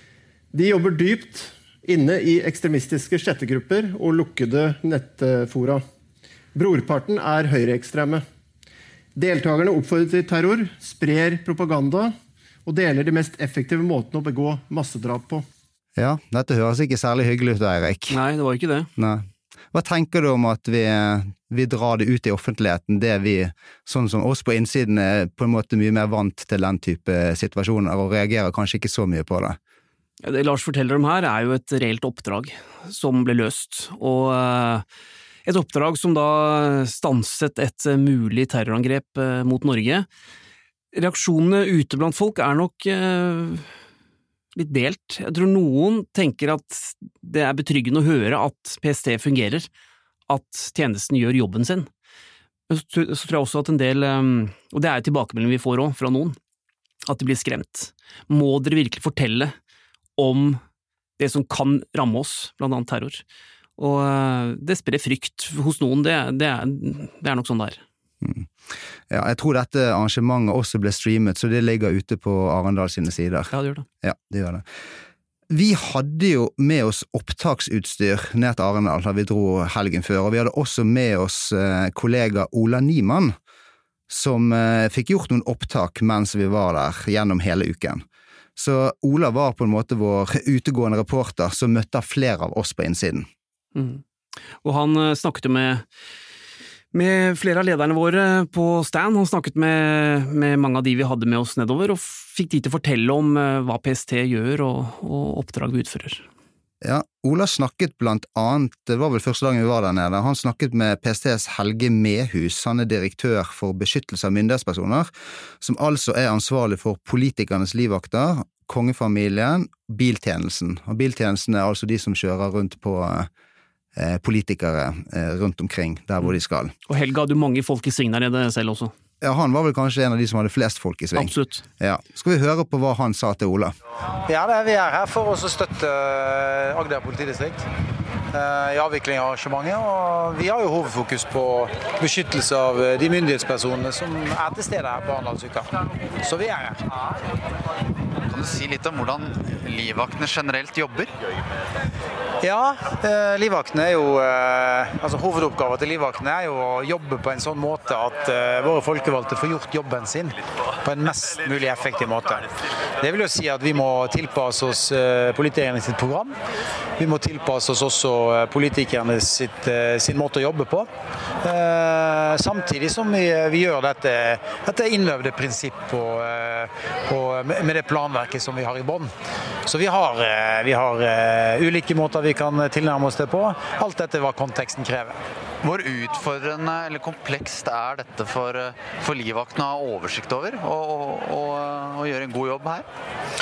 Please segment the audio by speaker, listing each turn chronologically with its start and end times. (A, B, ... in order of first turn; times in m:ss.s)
0:00.5-0:05.8 A
0:06.5-0:08.2 A
0:09.1-0:12.1 A
0:12.6-0:15.4 A
0:16.0-0:18.2 B
0:18.1-0:18.9 C
0:19.0-0:29.6 B
0:30.2-0:34.8 C
0:35.4-0:40.0 C
0:40.9-0:43.6 C
0:44.5-0:49.7 C
0:50.3-0:51.9 C
0:52.7-0:56.4 C
0:57.1-0:59.5 C
1:00.2-1:00.6 C
1:01.2-1:03.2 C
1:03.8-1:07.8 C
1:08.2-1:08.5 B
1:09.1-1:13.5 B
1:13.5-1:13.8 C
1:14.0-1:14.6 B
1:15.5-1:23.3 B
1:24.1-1:28.0 B
1:28.6-1:33.3 B
1:33.7-1:34.0 C
1:34.6-1:35.8 C
1:36.9-1:46.2 C
1:46.8-2:03.3 B
2:03.9-2:06.7 B
2:06.9-2:08.9 C
2:09.2-2:13.7 B
2:11.1-2:11.6 C
2:14.3-2:17.6 D
2:18.3-2:25.7 D
2:26.2-2:26.8 D
2:28.3-2:31.1 E
2:32.4-2:46.3 D
2:47.0-2:50.9 D
2:51.4-2:59.1 D
2:59.6-3:05.2 D
3:05.6-3:12.9 E